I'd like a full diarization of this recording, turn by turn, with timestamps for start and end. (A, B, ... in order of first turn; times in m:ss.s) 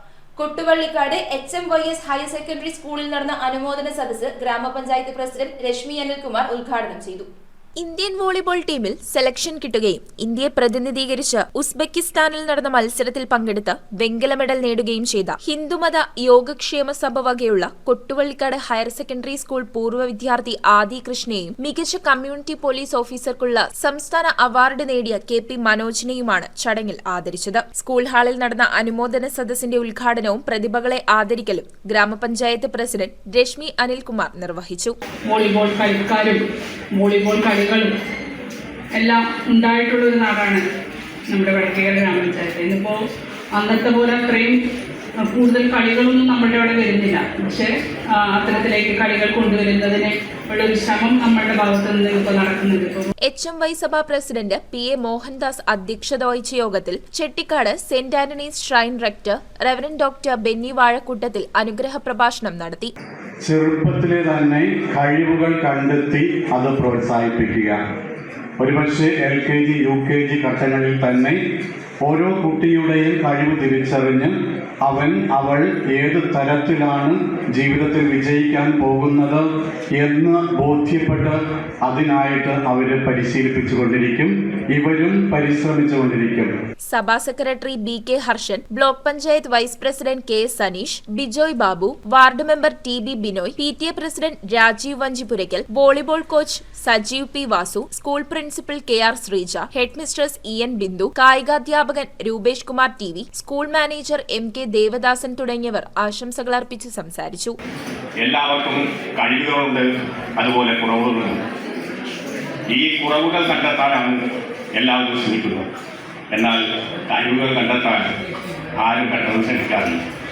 0:00.4-0:07.3 A
0:07.8-0:35.0 B
0:18.9-0:19.5 A
0:21.2-0:21.7 A
0:35.3-0:36.4 C
0:37.0-0:37.9 C
0:39.0-0:40.6 C
0:41.3-0:43.0 C
0:43.6-0:44.6 C
0:45.2-0:53.1 C
0:53.3-1:02.9 B
1:03.4-1:07.8 D
1:08.6-1:11.4 D
1:12.0-1:14.3 D
1:14.8-1:19.5 D
1:20.0-1:26.5 D
1:26.9-1:47.6 B
1:48.2-1:51.4 E
1:52.7-1:54.2 E
1:54.8-1:55.7 E
1:56.3-1:58.1 E
1:58.8-2:00.0 E